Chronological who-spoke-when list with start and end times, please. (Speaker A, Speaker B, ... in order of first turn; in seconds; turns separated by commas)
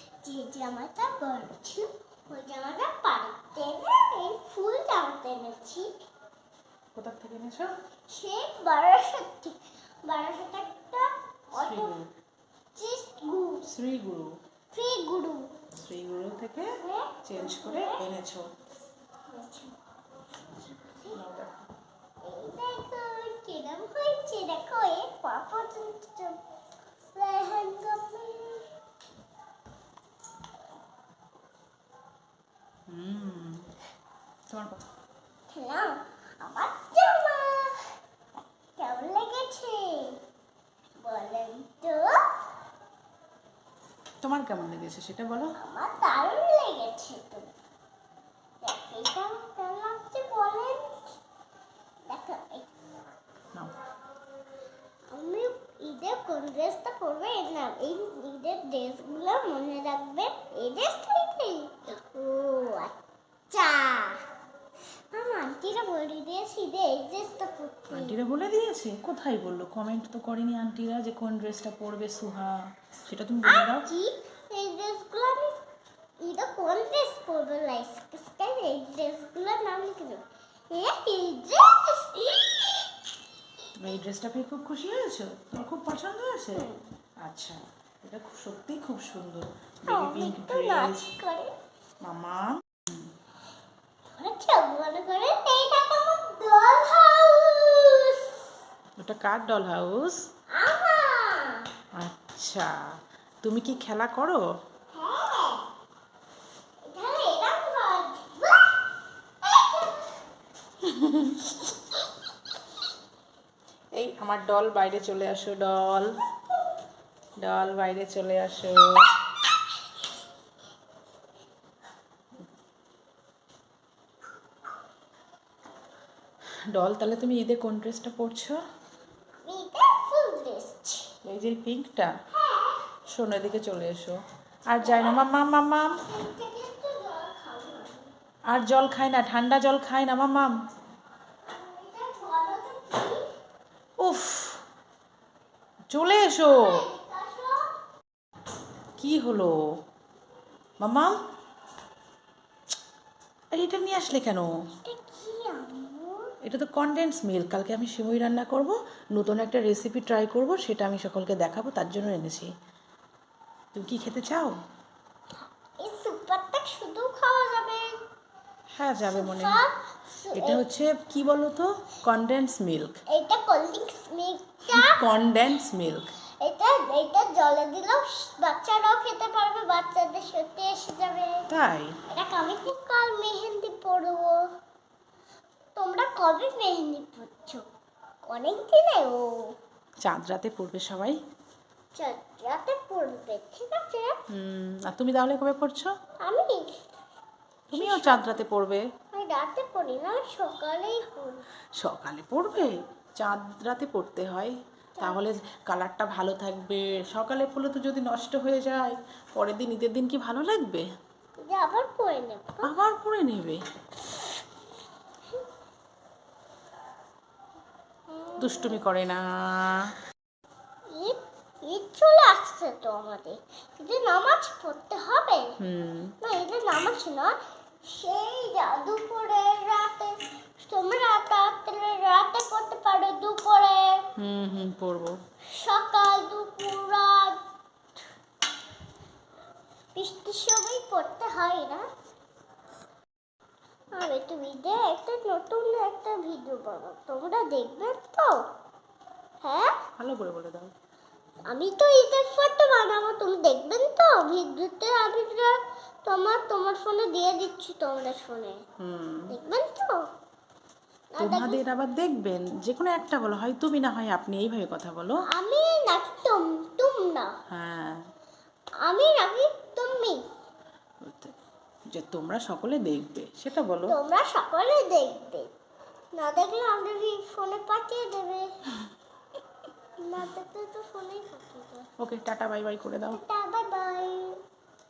Speaker A: 0.2-5.9, Speaker B: 7.0-7.7, Speaker A: 8.1-11.9, Speaker B: 11.5-12.1, Speaker A: 12.8-13.7, Speaker B: 13.7-14.4, Speaker A: 14.7-15.5, Speaker B: 15.8-16.7, Speaker A: 16.8-18.0, Speaker B: 17.2-18.5, Speaker A: 19.3-19.8, Speaker A: 20.4-21.2, Speaker B: 21.1-21.6, Speaker A: 22.2-26.4, Speaker A: 27.1-28.7, Speaker B: 32.9-33.7, Speaker B: 34.5-34.8, Speaker A: 35.5-37.9, Speaker A: 38.8-40.2, Speaker A: 41.0-42.3, Speaker B: 44.2-45.5, Speaker A: 45.6-47.5, Speaker A: 48.6-51.1, Speaker A: 52.1-52.7, Speaker A: 55.1-63.0, Speaker A: 63.5-64.2, Speaker A: 65.1-68.2, Speaker B: 67.9-73.9, Speaker A: 73.4-75.6, Speaker A: 76.2-82.9, Speaker B: 83.8-86.7, Speaker A: 86.5-86.8, Speaker B: 87.2-91.1, Speaker A: 89.9-91.5, Speaker B: 92.0-93.0, Speaker A: 94.2-98.5, Speaker B: 99.0-100.2, Speaker A: 100.5-101.7, Speaker B: 102.0-102.8, Speaker B: 103.4-104.4, Speaker A: 104.9-105.7, Speaker A: 106.8-108.8, Speaker A: 109.4-110.2, Speaker B: 110.8-111.5, Speaker B: 114.0-116.1, Speaker B: 117.4-119.2, Speaker B: 126.7-128.6, Speaker A: 129.4-131.1, Speaker B: 131.2-132.1, Speaker A: 132.3-132.9, Speaker B: 133.1-136.0, Speaker A: 134.8-135.2, Speaker A: 136.0-138.1, Speaker B: 138.5-140.6, Speaker A: 141.5-143.3, Speaker B: 144.0-144.6, Speaker B: 145.9-146.9, Speaker A: 146.2-147.8, Speaker B: 149.0-149.6, Speaker B: 150.8-151.2, Speaker B: 153.5-154.5, Speaker A: 154.8-156.3, Speaker B: 156.4-162.5, Speaker B: 163.7-164.6, Speaker A: 165.8-168.0, Speaker B: 168.8-169.6, Speaker A: 169.0-170.7, Speaker B: 170.3-173.0, Speaker A: 173.1-175.0, Speaker B: 174.7-176.1, Speaker A: 176.4-181.5, Speaker B: 181.5-182.0, Speaker A: 182.1-184.5, Speaker A: 185.8-187.6, Speaker A: 188.2-189.6, Speaker B: 190.0-191.2, Speaker A: 191.9-194.2, Speaker B: 194.3-195.9, Speaker A: 196.2-196.7, Speaker B: 197.7-198.9, Speaker A: 197.7-198.3, Speaker A: 199.1-201.4, Speaker B: 201.8-210.9, Speaker A: 211.4-212.7, Speaker B: 212.6-213.6, Speaker A: 218.1-218.8, Speaker B: 218.4-219.9, Speaker A: 220.9-225.6, Speaker B: 225.6-226.2, Speaker A: 226.2-227.3, Speaker A: 227.9-234.1, Speaker B: 234.2-235.2, Speaker A: 235.5-237.4, Speaker A: 239.9-241.9, Speaker A: 243.9-248.4, Speaker A: 249.4-249.7, Speaker B: 250.0-250.7, Speaker A: 251.5-258.6, Speaker B: 258.8-259.4, Speaker A: 259.3-260.1, Speaker A: 261.1-261.6, Speaker B: 261.2-265.2, Speaker A: 265.3-267.3, Speaker B: 267.5-268.0, Speaker A: 268.8-270.2, Speaker B: 271.0-271.3, Speaker B: 271.9-274.0, Speaker A: 273.9-275.5, Speaker A: 276.1-278.5, Speaker A: 280.0-281.9, Speaker B: 282.0-283.2, Speaker A: 283.1-284.4